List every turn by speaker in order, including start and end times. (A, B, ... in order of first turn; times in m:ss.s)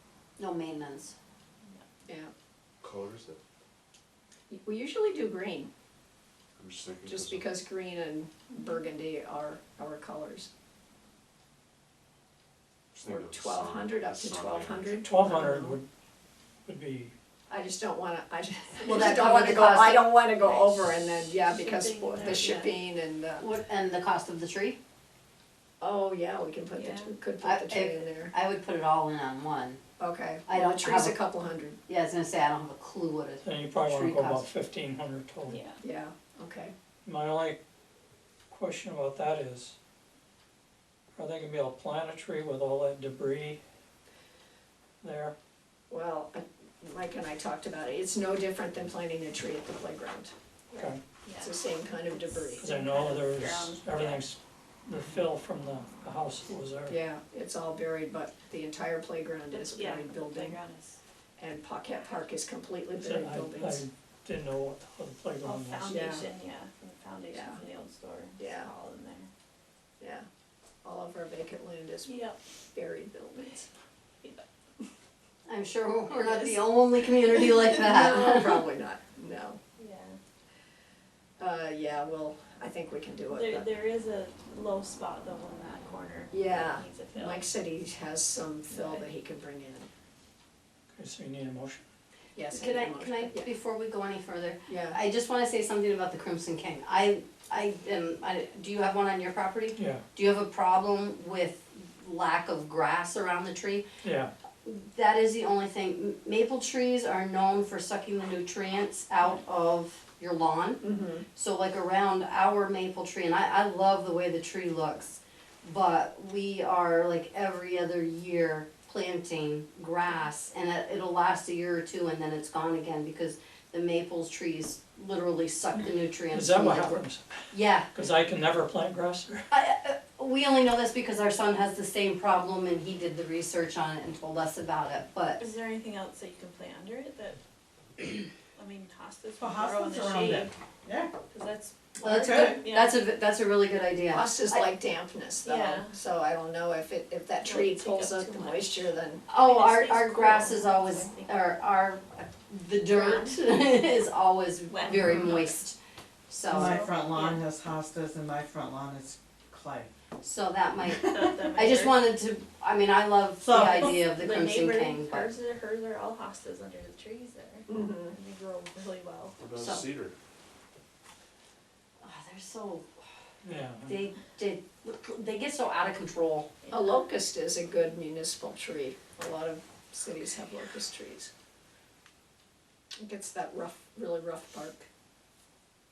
0:00.4-0:01.2 A
0:02.1-0:02.3 B
0:02.8-0:03.4 C
0:04.5-0:05.7 B
0:06.6-0:07.6 C
0:07.1-0:10.5 B
0:12.9-0:15.1 C
0:13.0-0:15.8 B
0:15.0-0:15.9 D
0:16.7-0:17.1 D
0:17.5-0:23.5 B
0:18.8-0:20.7 A
0:21.5-0:22.7 E
0:23.4-0:24.8 A
0:25.8-0:28.3 B
0:26.8-0:27.1 E
0:27.4-0:29.8 A
0:30.0-0:31.8 B
0:30.5-0:31.2 A
0:31.9-0:34.4 A
0:33.4-0:35.6 D
0:35.5-0:35.8 E
0:35.8-0:36.7 B
0:37.0-0:37.6 D
0:38.5-0:39.8 D
0:41.2-0:43.6 D
0:45.0-0:45.3 D
0:45.9-0:50.3 B
0:50.7-0:51.6 E
0:51.4-0:52.7 B
0:52.1-0:54.2 E
0:52.6-0:57.0 D
0:56.9-1:00.6 B
0:59.5-1:01.0 E
1:01.4-1:03.8 B
1:03.0-1:06.0 D
1:05.4-1:09.3 E
1:05.9-1:06.3 B
1:07.3-1:07.6 B
1:08.4-1:08.7 B
1:10.0-1:10.2 B
1:10.8-1:13.7 B
1:12.1-1:12.4 E
1:15.5-1:18.7 A
1:16.1-1:16.6 E
1:17.5-1:19.6 B
1:19.8-1:20.2 E
1:21.4-1:23.7 B
1:23.3-1:27.4 E
1:26.3-1:29.9 B
1:28.7-1:29.0 E
1:31.0-1:31.8 D
1:32.4-1:33.5 B
1:32.6-1:43.9 A
1:34.7-1:35.0 B
1:39.8-1:40.0 D
1:44.0-1:44.3 D
1:44.6-1:50.8 A
1:50.8-1:51.2 B
1:51.4-2:07.9 A
2:06.3-2:07.4 D
2:07.9-2:09.4 D
2:09.5-2:15.4 A
2:15.4-2:17.4 E
2:18.0-2:20.5 E
2:19.4-2:21.1 F
2:21.3-2:23.0 E
2:22.0-2:24.7 A
2:22.0-2:22.6 F
2:24.1-2:29.2 B
2:25.4-2:26.0 E
2:27.4-2:31.4 E
2:29.3-2:35.8 A
2:32.9-2:33.4 E
2:34.7-2:35.6 E
2:36.3-2:36.9 A
2:36.5-2:39.9 F
2:36.5-2:37.4 E
2:40.2-2:45.3 A
2:41.0-2:42.1 E
2:43.4-2:43.9 F
2:43.9-2:49.4 E
2:47.7-2:48.1 B
2:49.4-2:50.1 C
2:49.6-2:49.8 A
2:52.0-2:52.8 A
2:53.4-2:53.9 D
2:53.9-2:56.5 A
2:56.6-2:57.0 E
2:56.7-3:01.3 B
3:03.0-3:04.9 B